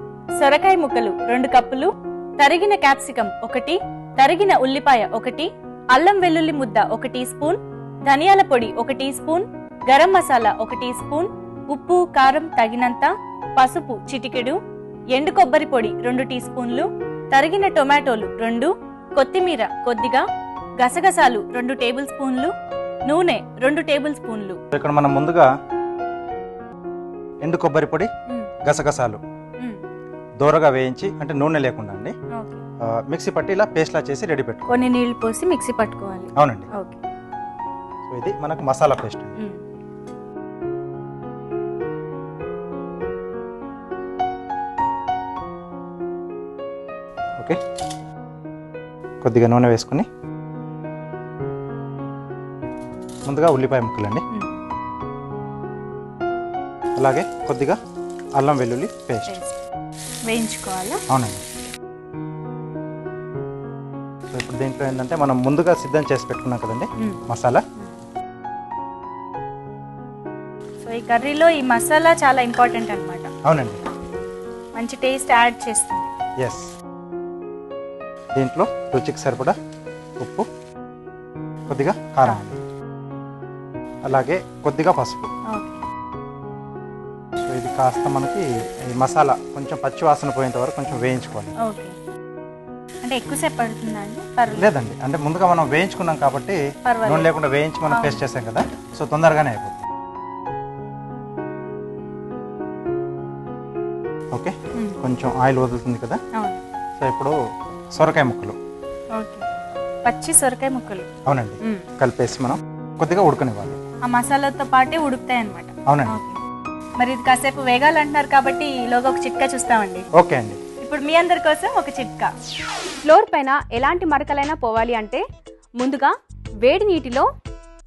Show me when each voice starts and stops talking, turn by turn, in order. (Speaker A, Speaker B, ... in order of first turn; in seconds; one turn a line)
Speaker A: 0.4-14.6
Speaker A: 15.1-20.2
Speaker A: 20.8-22.5
Speaker A: 23.1-24.6
Speaker B: 24.7-25.5
Speaker B: 27.4-28.1
Speaker B: 28.6-29.2
Speaker B: 30.4-32.1
Speaker A: 32.3-32.6
Speaker B: 32.9-34.9
Speaker A: 34.7-37.0
Speaker B: 36.4-36.7
Speaker B: 38.1-39.4
Speaker B: 49.2-50.1
Speaker B: 53.3-54.2
Speaker B: 57.0-57.8
Speaker B: 58.4-59.3
Speaker A: 59.3-59.6
Speaker A: 60.3-61.0
Speaker B: 61.1-61.4
Speaker B: 64.3-67.6
Speaker A: 70.8-73.3
Speaker B: 73.5-73.8
Speaker A: 74.8-76.1
Speaker B: 76.4-76.7
Speaker B: 78.3-79.5
Speaker B: 80.2-80.5
Speaker B: 81.7-82.6
Speaker B: 84.1-85.3
Speaker A: 85.5-85.8
Speaker B: 87.4-91.5
Speaker A: 91.6-92.0
Speaker A: 93.0-94.7
Speaker B: 94.5-99.8
Speaker A: 96.8-97.3
Speaker A: 97.9-98.2
Speaker B: 104.3-106.2
Speaker A: 106.3-106.6
Speaker B: 107.0-107.3
Speaker B: 108.0-108.6
Speaker A: 109.1-109.5
Speaker A: 110.0-111.1
Speaker B: 111.3-113.8
Speaker A: 111.6-111.9
Speaker A: 114.0-116.4
Speaker B: 115.9-116.2
Speaker A: 117.0-120.1
Speaker B: 120.2-120.6
Speaker A: 120.8-122.3
Speaker C: 123.0-125.2
Speaker C: 125.8-126.1
Speaker C: 126.6-127.3